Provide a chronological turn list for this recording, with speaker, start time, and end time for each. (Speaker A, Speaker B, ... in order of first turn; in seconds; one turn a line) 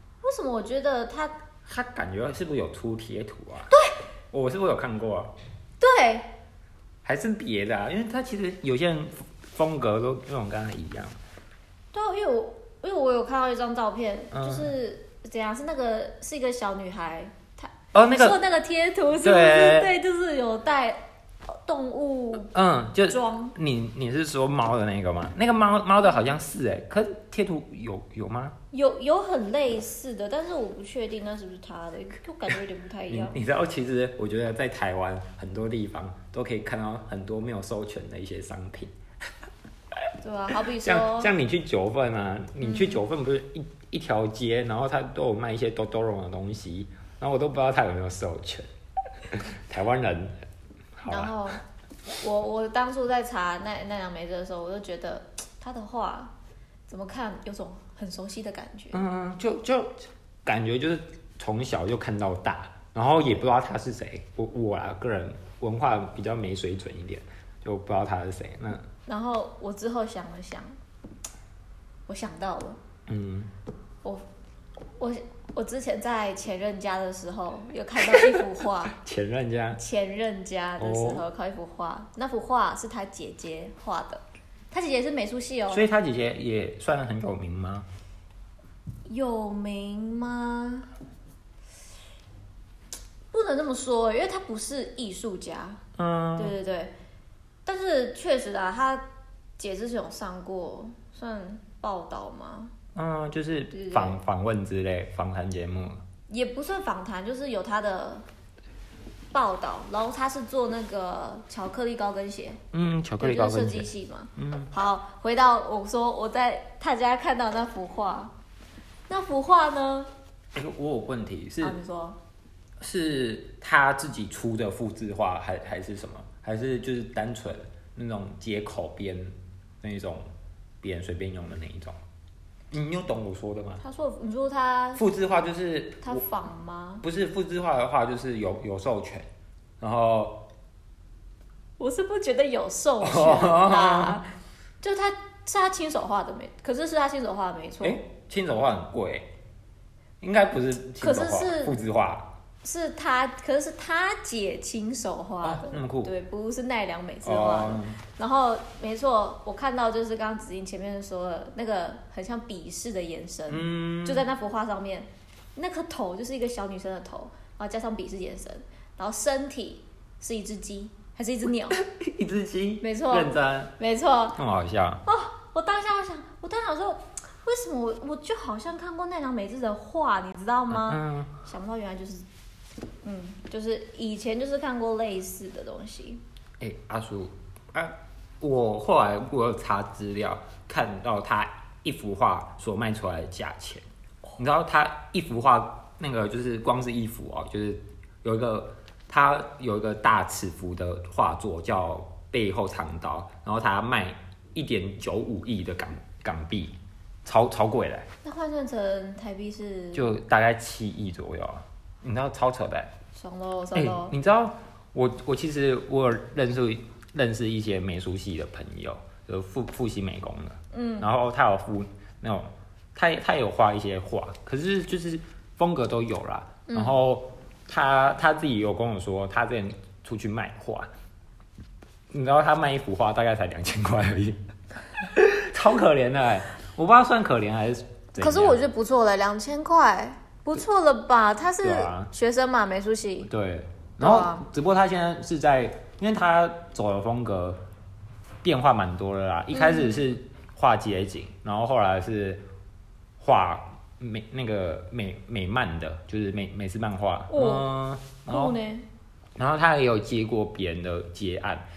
Speaker A: 0.2-1.4
Speaker B: 1.6-3.7
Speaker B: 4.3-5.3
Speaker A: 5.8-6.3
Speaker B: 7.0-11.2
Speaker A: 11.9-22.5
Speaker B: 14.3-14.7
Speaker B: 17.9-18.4
Speaker B: 19.2-19.9
Speaker B: 22.5-28.6
Speaker A: 23.0-23.5
Speaker A: 28.7-33.4
Speaker B: 33.1-38.9
Speaker A: 40.2-41.3
Speaker B: 40.8-48.7
Speaker A: 42.6-43.0
Speaker B: 49.2-50.4
Speaker B: 51.0-51.3
Speaker A: 51.1-51.6
Speaker A: 52.2-56.3
Speaker A: 56.9-59.0
Speaker B: 58.9-68.8
Speaker A: 69.0-70.8
Speaker A: 72.1-72.8
Speaker B: 73.1-73.5
Speaker A: 75.0-79.0
Speaker B: 78.1-78.4
Speaker B: 78.9-79.8
Speaker A: 79.8-85.8
Speaker B: 80.8-81.2
Speaker B: 85.7-87.9
Speaker A: 89.0-90.9
Speaker A: 93.3-95.8
Speaker B: 96.0-96.5
Speaker A: 96.3-96.9
Speaker A: 97.7-99.0
Speaker A: 99.6-102.7
Speaker B: 102.9-106.0
Speaker A: 103.7-104.2
Speaker A: 106.3-108.2
Speaker A: 109.3-112.6
Speaker B: 112.7-114.7
Speaker A: 113.2-118.3
Speaker A: 119.1-120.1
Speaker B: 120.5-121.8
Speaker A: 121.6-122.2
Speaker B: 122.8-130.2
Speaker B: 130.8-132.0
Speaker B: 132.7-133.8
Speaker A: 133.8-135.0
Speaker B: 134.9-136.2
Speaker A: 136.0-137.0
Speaker B: 137.0-139.3
Speaker B: 139.8-140.4
Speaker A: 141.8-148.0
Speaker B: 143.0-144.2
Speaker B: 147.8-149.3
Speaker B: 150.2-152.3
Speaker A: 151.0-151.8
Speaker A: 152.6-171.8
Speaker B: 155.4-156.1
Speaker B: 157.2-158.0
Speaker B: 163.5-164.3
Speaker B: 171.7-173.7
Speaker A: 172.8-174.4
Speaker B: 174.3-175.0
Speaker A: 175.1-182.2
Speaker B: 180.7-181.3
Speaker A: 183.0-186.2
Speaker B: 186.6-193.8
Speaker B: 194.4-208.1
Speaker A: 208.2-210.2
Speaker B: 209.9-212.9
Speaker A: 213.1-214.1
Speaker B: 213.7-230.9
Speaker A: 220.7-221.1
Speaker A: 226.7-227.0
Speaker B: 232.1-234.4
Speaker B: 235.0-238.6
Speaker A: 238.2-243.3
Speaker B: 241.6-242.1
Speaker B: 243.2-247.6
Speaker A: 244.0-244.4
Speaker B: 248.4-252.4
Speaker A: 249.5-250.0
Speaker B: 253.2-258.6
Speaker A: 257.3-257.6
Speaker A: 258.2-258.9
Speaker B: 259.4-261.6